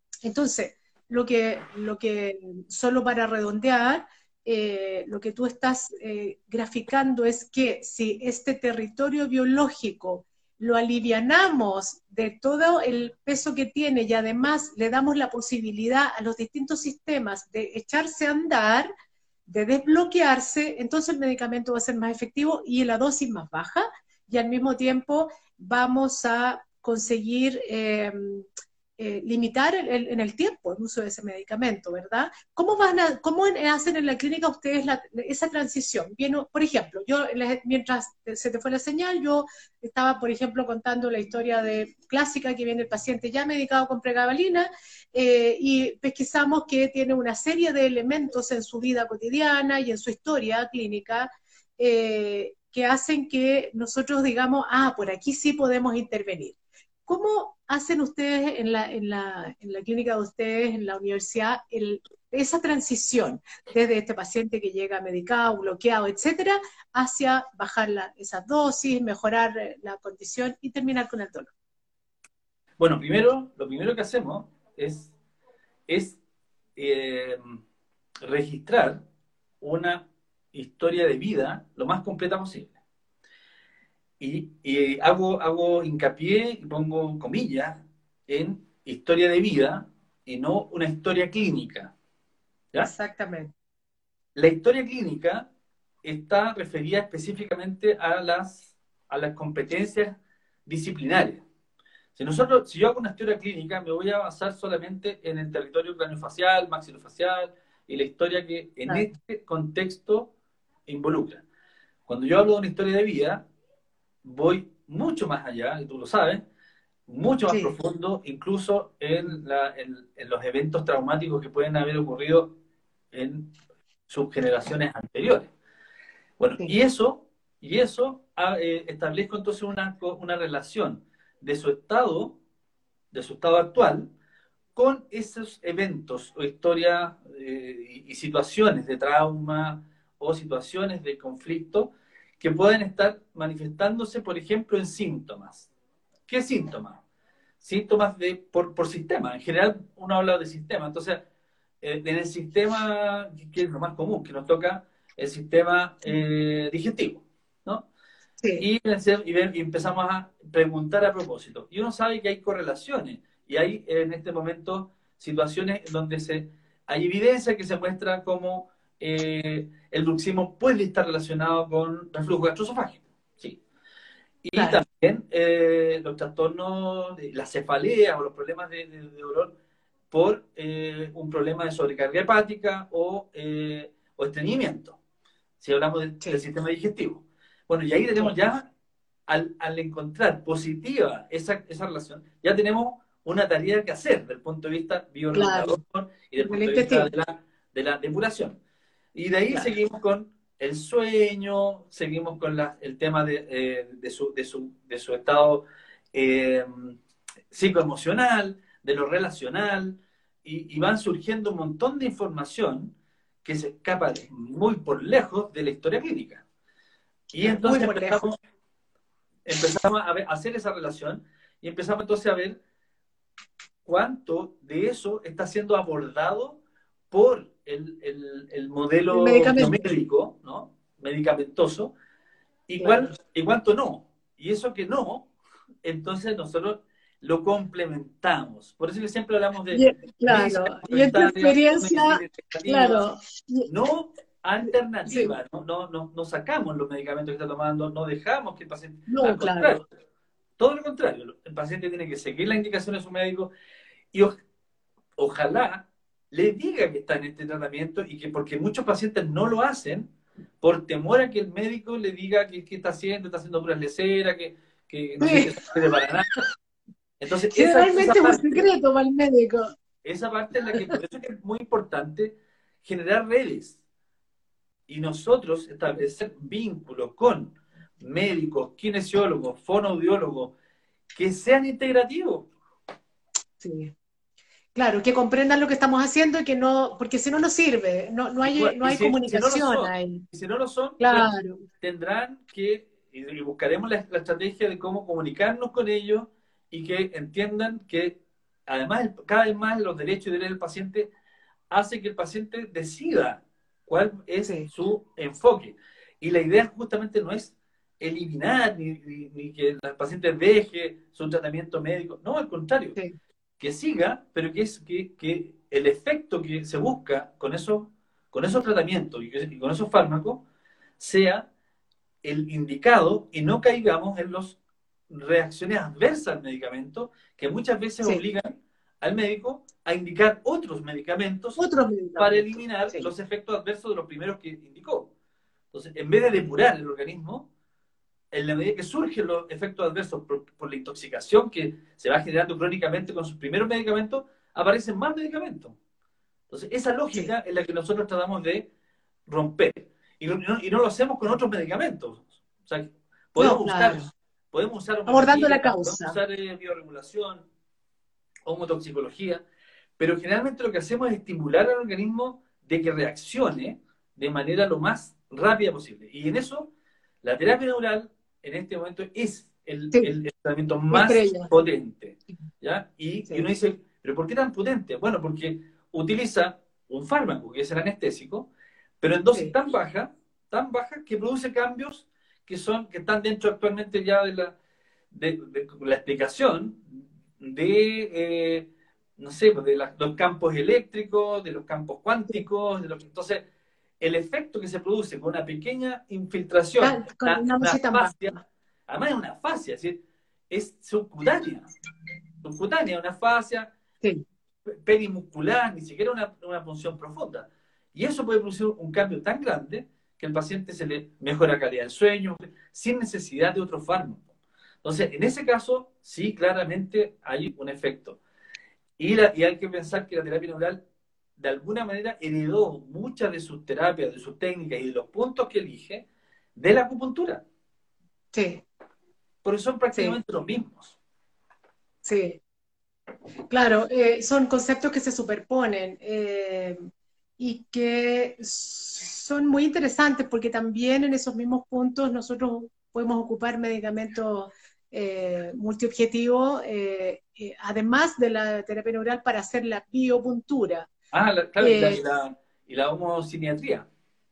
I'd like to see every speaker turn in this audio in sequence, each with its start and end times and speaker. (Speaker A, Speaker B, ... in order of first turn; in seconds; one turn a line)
Speaker A: 0.2-18.9
Speaker A: 19.5-28.4
Speaker A: 29.0-56.5
Speaker A: 57.1-71.5
Speaker B: 72.8-75.1
Speaker B: 75.9-76.2
Speaker B: 76.8-77.6
Speaker B: 78.2-79.0
Speaker B: 79.6-82.7
Speaker B: 84.2-91.9
Speaker A: 92.8-93.5
Speaker B: 94.3-95.5
Speaker B: 96.0-101.4
Speaker B: 102.2-110.3
Speaker B: 110.9-111.4
Speaker B: 112.1-113.4
Speaker B: 114.2-116.4
Speaker B: 117.1-122.5
Speaker A: 117.5-117.7
Speaker B: 123.1-123.5
Speaker B: 124.1-125.5
Speaker B: 126.4-132.4
Speaker B: 133.1-134.1
Speaker B: 134.8-145.7
Speaker B: 146.3-147.0
Speaker B: 147.6-151.2
Speaker B: 151.8-157.9
Speaker A: 158.4-158.7
Speaker B: 158.6-173.6
Speaker B: 174.4-179.5
Speaker A: 174.5-174.8
Speaker B: 180.1-185.0
Speaker B: 185.6-188.7
Speaker B: 189.3-198.6
Speaker A: 195.3-195.8
Speaker A: 196.4-197.1
Speaker B: 199.1-207.0
Speaker B: 207.5-216.4
Speaker B: 217.3-218.3
Speaker A: 217.4-218.3
Speaker B: 219.4-222.6
Speaker B: 223.8-226.6
Speaker B: 227.1-231.9
Speaker A: 229.1-229.8
Speaker B: 232.7-235.3
Speaker A: 232.8-233.1
Speaker B: 235.8-243.0
Speaker A: 239.7-243.7
Speaker B: 243.7-249.8
Speaker A: 245.1-245.3
Speaker A: 249.1-249.8
Speaker B: 250.6-253.5
Speaker B: 255.2-260.1
Speaker B: 260.6-266.3
Speaker A: 265.2-265.6
Speaker B: 267.2-268.6
Speaker A: 267.5-269.7
Speaker B: 270.0-273.8
Speaker B: 274.9-280.5
Speaker B: 281.1-282.5
Speaker A: 283.6-283.9
Speaker A: 284.7-290.2
Speaker B: 288.4-291.3
Speaker A: 291.0-291.6
Speaker B: 291.8-301.1
Speaker B: 301.7-313.0
Speaker A: 304.4-304.7
Speaker B: 313.6-320.4
Speaker B: 321.0-321.5
Speaker B: 322.2-324.6
Speaker B: 325.1-331.6
Speaker A: 331.6-333.1
Speaker B: 332.2-335.1
Speaker B: 335.7-337.5
Speaker B: 338.3-345.8
Speaker B: 346.5-348.7
Speaker B: 349.3-357.4
Speaker A: 353.4-354.1
Speaker A: 355.1-356.2
Speaker B: 358.4-359.4
Speaker B: 360.0-366.7
Speaker B: 367.2-378.5
Speaker A: 370.9-371.5
Speaker B: 379.0-384.6
Speaker B: 385.1-393.4
Speaker B: 394.0-398.3
Speaker A: 396.8-398.4
Speaker B: 398.9-401.7
Speaker B: 402.4-403.7
Speaker B: 404.6-414.2
Speaker B: 414.8-418.2
Speaker B: 419.0-420.8
Speaker B: 421.4-427.4
Speaker A: 428.3-428.6
Speaker B: 429.4-431.0
Speaker A: 432.0-432.4
Speaker A: 433.5-436.8
Speaker A: 437.4-450.9
Speaker B: 451.1-453.9
Speaker A: 451.6-452.0